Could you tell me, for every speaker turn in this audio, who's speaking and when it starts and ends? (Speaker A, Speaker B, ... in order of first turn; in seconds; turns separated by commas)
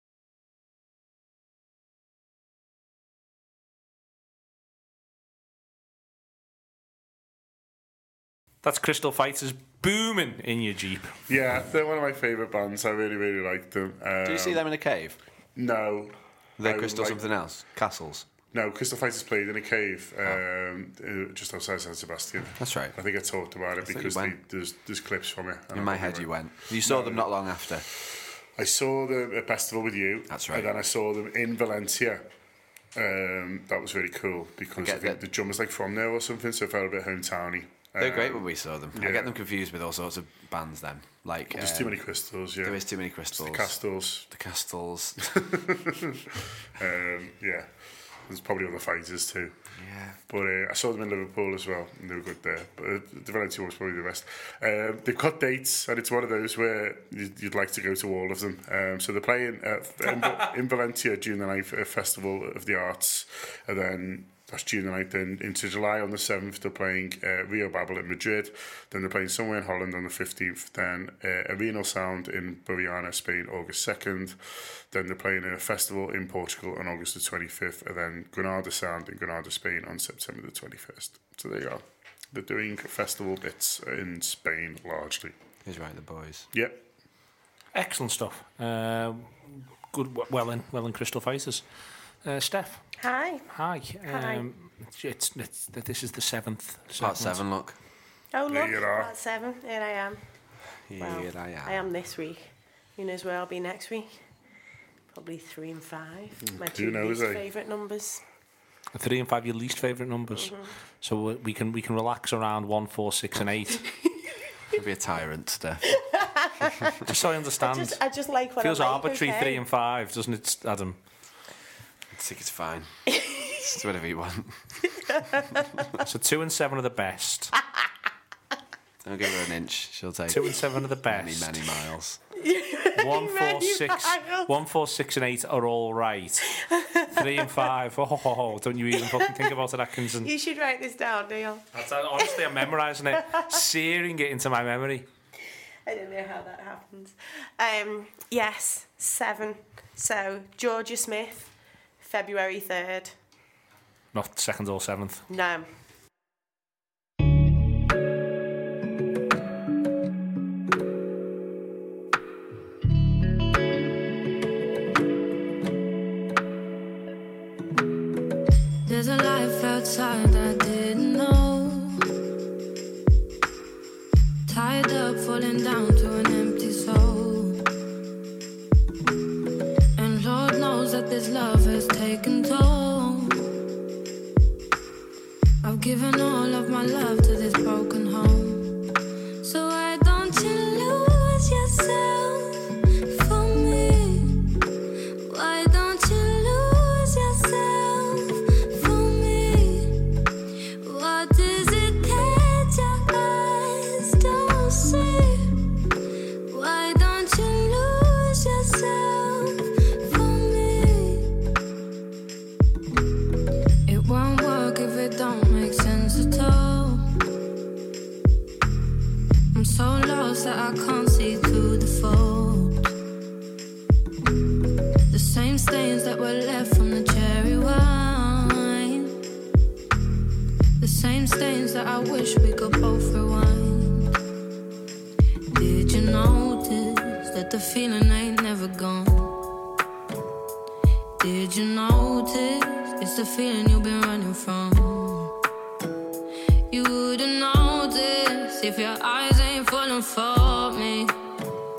Speaker A: 8.6-11.2, Speaker B: 11.3-14.6, Speaker C: 14.2-15.2, Speaker B: 15.6-17.2, Speaker C: 16.6-18.3, Speaker B: 18.5-27.3, Speaker C: 22.6-23.0, Speaker C: 23.8-24.4, Speaker C: 25.7-27.8, Speaker B: 28.6-32.2, Speaker C: 30.3-30.7, Speaker B: 32.9-39.3, Speaker C: 34.8-35.2, Speaker C: 38.0-42.0, Speaker B: 41.5-44.3, Speaker C: 42.6-43.8, Speaker C: 44.3-45.2, Speaker B: 45.3-46.2, Speaker B: 46.8-47.7, Speaker B: 48.3-49.5, Speaker C: 49.8-50.2, Speaker B: 50.3-74.4, Speaker B: 74.9-81.8, Speaker B: 82.3-85.3, Speaker C: 85.6-86.5, Speaker B: 86.5-86.8, Speaker A: 87.7-91.6, Speaker A: 92.2-97.4, Speaker D: 93.0-93.5, Speaker D: 94.0-94.5, Speaker C: 97.0-97.7, Speaker D: 98.3-100.2, Speaker B: 98.5-99.1, Speaker C: 100.9-101.8, Speaker D: 101.0-104.1, Speaker D: 105.1-108.2, Speaker B: 106.5-107.4, Speaker A: 108.9-113.9, Speaker D: 110.3-110.7, Speaker C: 114.7-116.0, Speaker D: 116.0-116.9, Speaker A: 117.1-118.0, Speaker D: 117.6-119.6, Speaker A: 118.6-121.0, Speaker C: 122.1-124.9, Speaker D: 123.1-123.5, Speaker A: 126.0-127.5, Speaker C: 129.0-132.2, Speaker A: 130.3-131.6, Speaker D: 132.3-134.5, Speaker A: 133.0-136.6, Speaker D: 136.7-137.2, Speaker A: 137.1-140.3, Speaker D: 138.9-139.5, Speaker D: 140.2-141.6, Speaker A: 141.7-145.0, Speaker D: 145.8-153.1, Speaker A: 154.1-155.2, Speaker D: 155.3-155.7, Speaker E: 168.8-172.0, Speaker E: 174.4-177.6, Speaker E: 179.9-183.5, Speaker E: 185.6-188.8, Speaker E: 189.4-194.3, Speaker E: 195.2-199.9, Speaker E: 200.8-205.5, Speaker E: 206.5-211.3, Speaker E: 213.8-217.0, Speaker E: 219.5-222.9, Speaker E: 225.1-229.1, Speaker E: 230.8-234.1, Speaker E: 235.5-239.3, Speaker E: 241.2-245.3, Speaker E: 246.7-251.1